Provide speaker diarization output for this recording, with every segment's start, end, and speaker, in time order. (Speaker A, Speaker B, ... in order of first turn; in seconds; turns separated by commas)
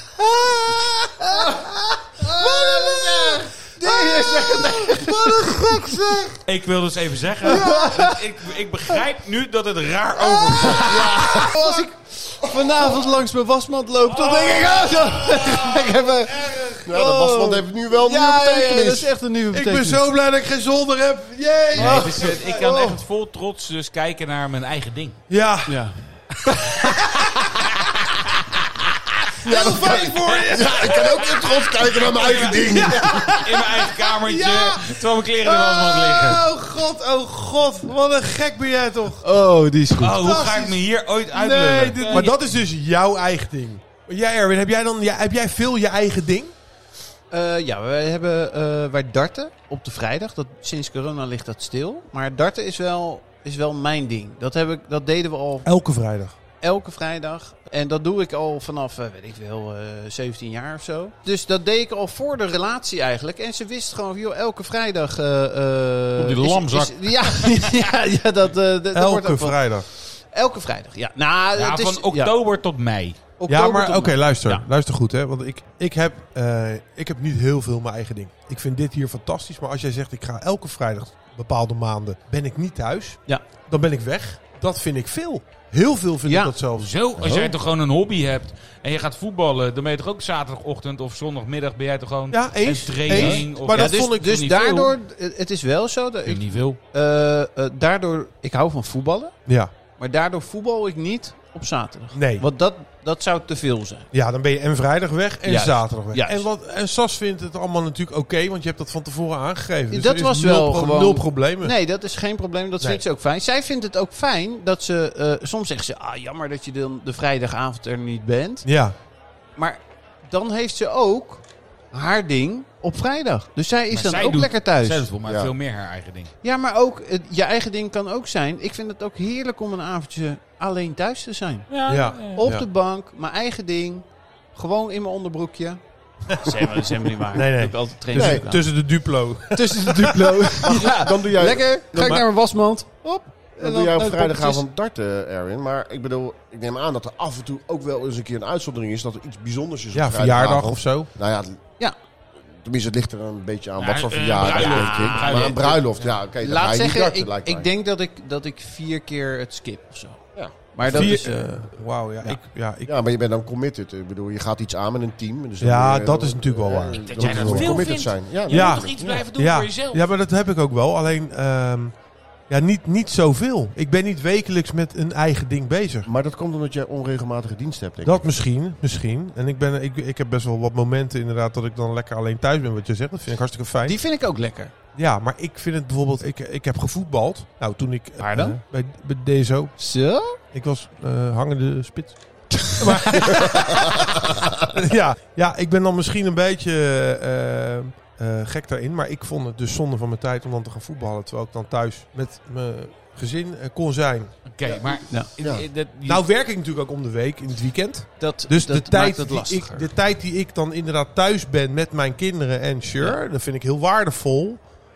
Speaker A: 0.2-6.3, Speaker B: 2.8-3.4, Speaker C: 4.0-5.9, Speaker D: 6.4-11.1, Speaker A: 7.4-9.0, Speaker A: 10.3-16.5, Speaker B: 10.8-11.6, Speaker C: 11.6-11.9, Speaker D: 14.3-14.9, Speaker C: 14.8-17.7, Speaker B: 16.9-19.1, Speaker A: 17.9-20.0, Speaker C: 19.5-22.9, Speaker D: 21.7-25.2, Speaker A: 21.8-22.9, Speaker C: 25.3-25.8, Speaker A: 25.7-26.0, Speaker C: 26.4-27.4, Speaker D: 26.8-27.9, Speaker C: 29.4-31.4, Speaker B: 29.5-33.4, Speaker D: 30.4-36.5, Speaker C: 31.9-39.2, Speaker A: 39.2-40.2, Speaker D: 40.0-42.3, Speaker C: 40.1-46.5, Speaker A: 47.3-55.7, Speaker C: 55.6-56.4, Speaker A: 56.6-72.3, Speaker D: 66.2-67.8, Speaker C: 68.9-69.9, Speaker D: 71.6-73.2, Speaker A: 73.4-74.7, Speaker C: 73.5-86.9, Speaker A: 86.3-86.5, Speaker D: 86.8-94.9, Speaker A: 87.2-87.5, Speaker C: 92.3-94.4, Speaker A: 93.1-99.4, Speaker D: 96.3-96.8, Speaker C: 99.5-99.7, Speaker A: 100.0-104.1, Speaker C: 102.1-102.5, Speaker C: 104.1-111.8, Speaker A: 105.5-106.5, Speaker A: 109.9-118.7, Speaker C: 118.7-119.0, Speaker A: 119.6-125.1, Speaker D: 123.9-126.3, Speaker B: 125.2-125.5, Speaker A: 126.4-131.7, Speaker D: 131.7-132.4, Speaker C: 131.9-132.7, Speaker A: 132.3-138.9, Speaker C: 136.3-141.0, Speaker B: 138.1-138.5, Speaker A: 139.5-144.7, Speaker B: 140.8-142.3, Speaker B: 143.6-151.6, Speaker C: 149.9-151.1, Speaker B: 152.5-157.7, Speaker D: 153.8-156.1, Speaker A: 154.4-155.6, Speaker A: 156.4-162.4, Speaker B: 160.3-161.2, Speaker C: 160.8-162.9, Speaker B: 162.8-169.2, Speaker C: 165.6-167.8, Speaker D: 167.1-170.1, Speaker C: 168.5-172.0, Speaker C: 172.5-176.1, Speaker B: 176.1-178.2, Speaker C: 178.0-184.0, Speaker A: 183.8-184.7, Speaker C: 184.9-189.8, Speaker A: 188.2-188.6, Speaker A: 189.8-190.4, Speaker C: 190.5-204.3, Speaker A: 192.6-193.5, Speaker B: 193.6-194.4, Speaker D: 204.5-206.2, Speaker B: 204.7-205.7, Speaker C: 206.0-214.6, Speaker A: 208.2-209.9